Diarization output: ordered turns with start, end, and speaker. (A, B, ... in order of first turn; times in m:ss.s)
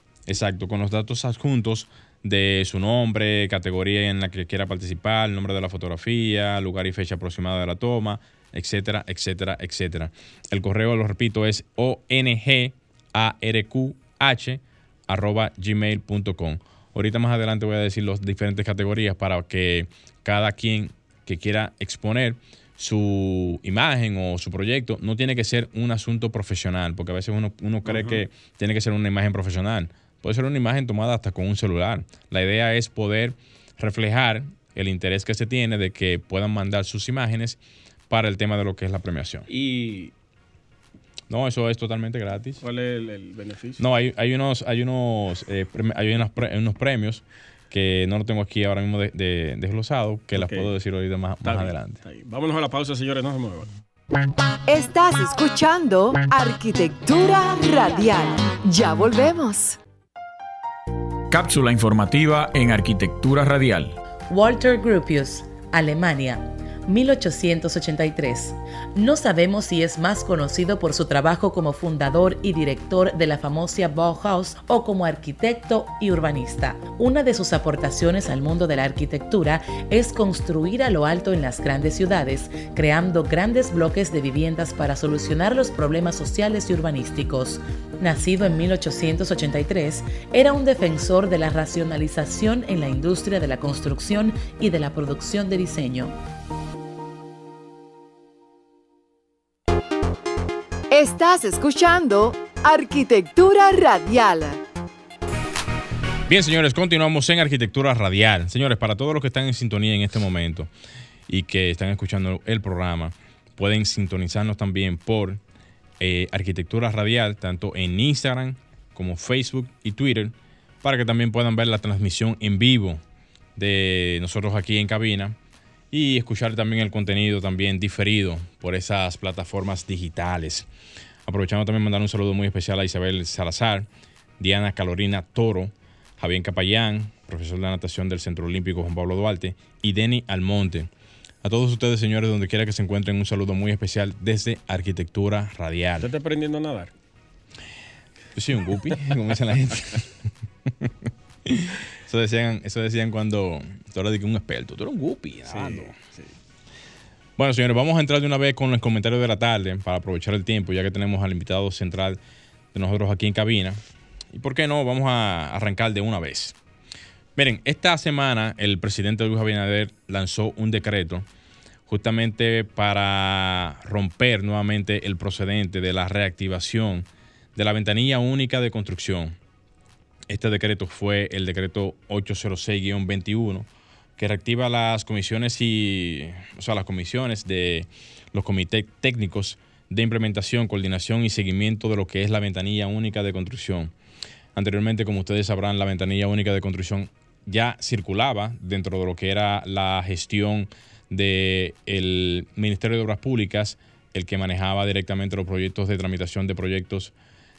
0:00.3-0:39.5 A
0:39.5-0:40.1 B
0:41.3-0:42.6 A
0:42.6-0:43.8 B
0:43.8-0:52.0 A
0:50.3-0:50.7 B
0:51.4-0:53.7 B
0:54.7-0:59.8 C
1:01.3-1:04.0 D
1:04.3-1:36.1 E
1:40.9-1:44.6 C
1:46.3-1:50.7 A
1:51.3-1:55.4 A
1:56.0-2:03.0 A
2:03.6-2:05.4 A
2:05.9-2:10.7 A
2:11.2-2:13.9 A
2:14.4-2:20.9 A
2:21.4-2:26.1 A
2:26.0-2:26.9 B
2:28.3-2:30.1 A
2:30.6-2:30.9 A
2:31.4-2:35.9 A
2:35.5-2:36.3 B
2:37.4-2:42.2 A
2:42.7-2:43.8 A
2:44.3-2:46.6 A
2:47.4-2:51.2 A
2:51.9-2:59.4 A
3:00.3-3:13.9 A
3:14.5-3:27.1 A